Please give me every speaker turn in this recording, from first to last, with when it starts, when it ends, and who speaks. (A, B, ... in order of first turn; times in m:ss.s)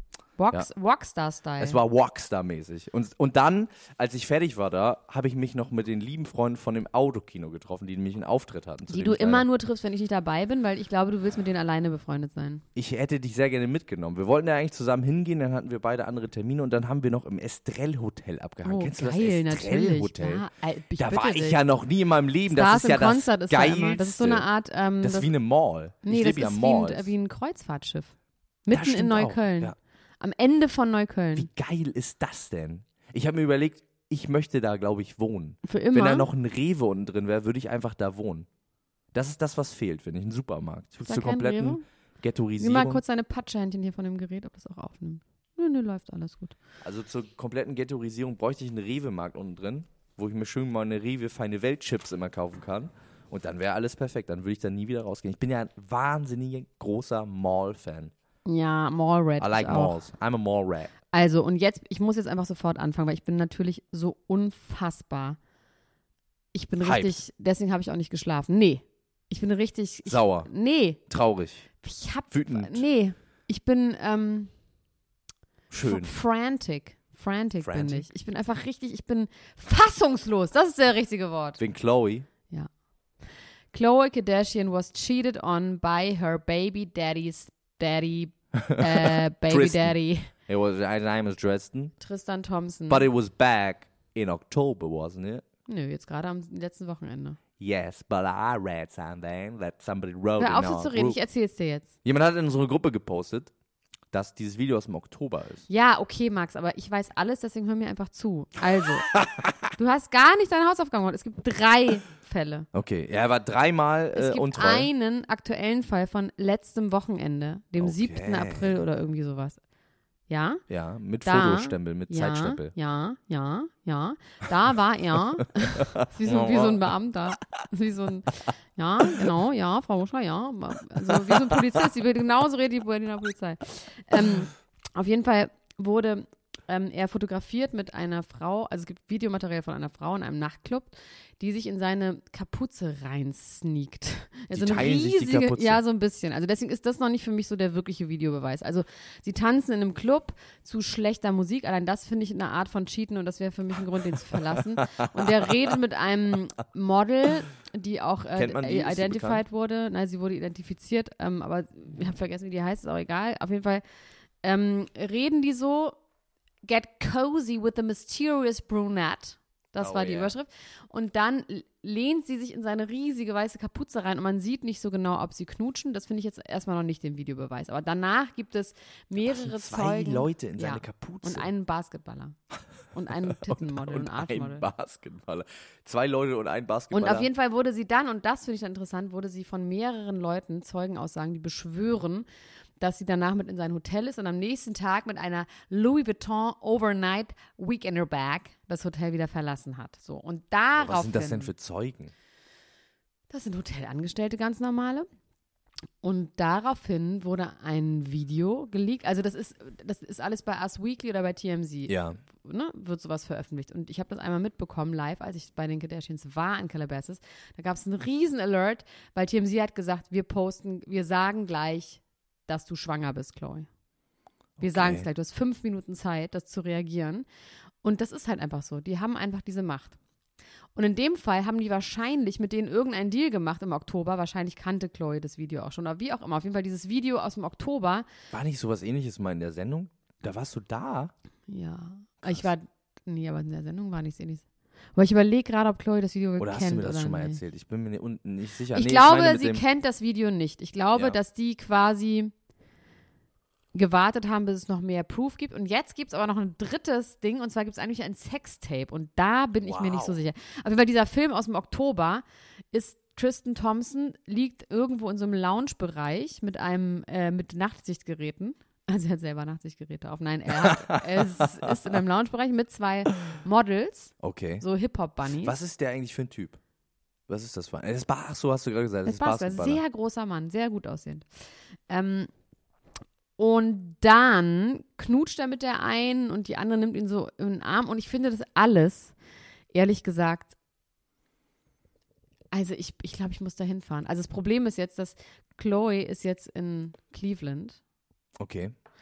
0:00.4-0:01.8 A
0:01.6-0:09.4 B
0:08.9-0:12.6 A
0:12.7-0:20.4 B
0:18.6-0:21.6 A
0:21.0-0:24.5 B
0:22.5-0:25.3 A
0:25.0-0:27.1 B
0:26.0-0:28.1 A
0:28.6-0:31.5 A
0:28.7-0:29.8 B
0:31.3-0:38.5 B
0:35.6-0:36.3 A
0:39.1-0:43.0 B
0:41.0-0:41.8 A
0:42.6-0:46.5 A
0:46.8-0:58.1 B
0:58.4-1:00.0 A
0:59.4-1:00.9 B
1:01.1-1:05.4 A
1:06.5-1:11.0 A
1:06.8-1:07.2 B
1:10.0-1:10.5 B
1:11.1-1:11.7 B
1:11.8-1:14.5 A
1:12.3-1:12.8 B
1:15.7-1:16.1 B
1:15.8-1:21.6 A
1:17.6-1:18.1 B
1:21.6-1:22.3 B
1:23.7-1:30.3 A
1:28.6-1:31.9 B
1:32.0-1:33.1 A
1:32.9-1:35.4 B
1:35.7-1:37.4 A
1:37.6-1:41.2 B
1:40.4-1:41.9 A
1:42.0-1:43.5 B
1:44.1-1:45.7 B
1:45.7-1:49.1 A
1:49.1-1:49.5 B
1:49.7-1:52.7 A
1:52.7-1:54.9 B
1:54.1-1:59.6 A
1:57.8-1:58.8 B
2:00.3-2:00.6 A
2:00.7-2:02.7 B
2:01.2-2:43.8 A
2:05.8-2:06.8 B
2:11.1-2:11.5 B
2:24.5-2:25.8 B
2:34.8-2:35.5 B
2:38.4-2:39.4 B
2:44.4-2:46.0 A
2:46.6-3:02.4 A
2:49.8-2:50.3 B
2:59.2-3:01.5 B
3:02.9-3:04.6 A
3:03.3-3:07.3 B
3:06.9-3:12.2 A
3:12.8-3:21.5 A
3:20.8-3:22.1 B
3:23.3-3:25.1 A
3:26.0-3:43.7 A
3:31.9-3:32.2 B
3:44.6-3:45.0 B
3:44.6-3:47.2 A
3:47.8-3:50.0 A
3:50.7-3:58.1 A
3:58.3-4:01.1 B
4:01.5-4:07.4 A
4:06.4-4:09.6 B
4:08.7-4:12.3 A
4:13.7-4:35.6 A
4:19.6-4:20.2 B
4:30.6-4:31.4 B
4:34.2-4:34.6 B
4:35.4-4:36.6 B
4:37.3-4:39.8 B
4:39.0-4:41.3 A
4:41.9-4:42.3 A
4:43.4-4:49.1 A
4:49.7-4:50.5 A
4:52.5-4:57.8 A
4:58.4-4:58.7 B